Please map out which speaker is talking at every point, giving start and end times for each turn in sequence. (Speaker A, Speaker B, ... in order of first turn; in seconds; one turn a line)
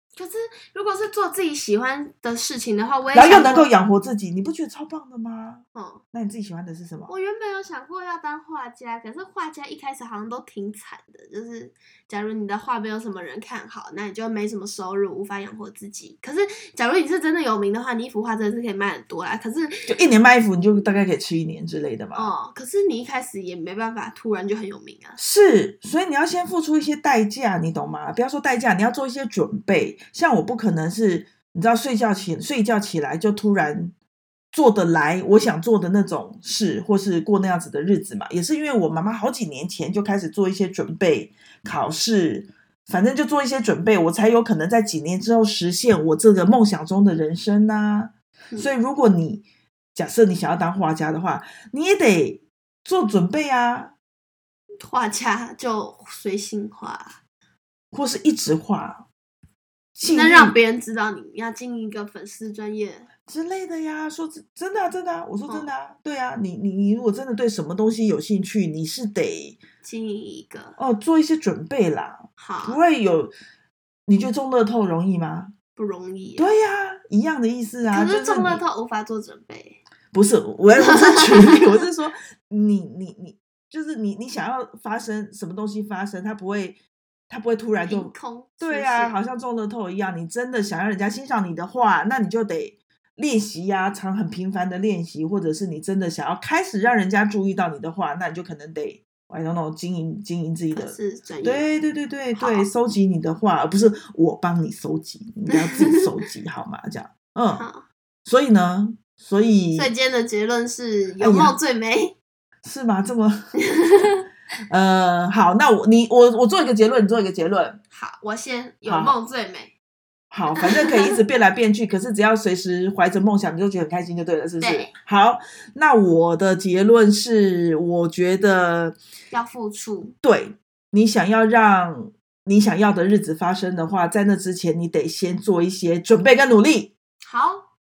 Speaker A: 0.1-3.7
Speaker B: 3.1-7.1
Speaker A: 5.8-6.0
Speaker A: 7.1-19.8
Speaker B: 19.9-22.3
Speaker A: 22.1-25.2
Speaker B: 25.2-33.9
Speaker B: 34.5-54.0
Speaker A: 54.8-57.2
Speaker B: 57.9-59.1
Speaker B: 60.0-60.6
Speaker A: 60.0-63.1
Speaker B: 63.3-69.6
Speaker A: 65.5-65.7
Speaker A: 69.8-70.8
Speaker B: 70.8-73.3
Speaker A: 72.4-72.8
Speaker B: 74.1-75.5
Speaker A: 75.8-76.5
Speaker B: 76.4-78.6
Speaker A: 77.9-79.8
Speaker B: 80.1-107.7
Speaker A: 80.8-81.6
Speaker A: 87.8-89.2
Speaker A: 100.7-101.7
Speaker A: 102.4-102.7
Speaker A: 105.5-106.0
Speaker A: 107.6-107.9
Speaker B: 108.3-109.9
Speaker A: 109.8-112.2
Speaker B: 111.2-111.6
Speaker B: 112.6-113.5
Speaker A: 113.6-114.2
Speaker B: 114.7-117.8
Speaker A: 117.9-119.7
Speaker B: 118.8-119.2
Speaker B: 120.3-129.0
Speaker A: 120.6-121.1
Speaker A: 124.6-124.9
Speaker A: 129.3-130.2
Speaker B: 130.2-136.9
Speaker A: 137.2-137.7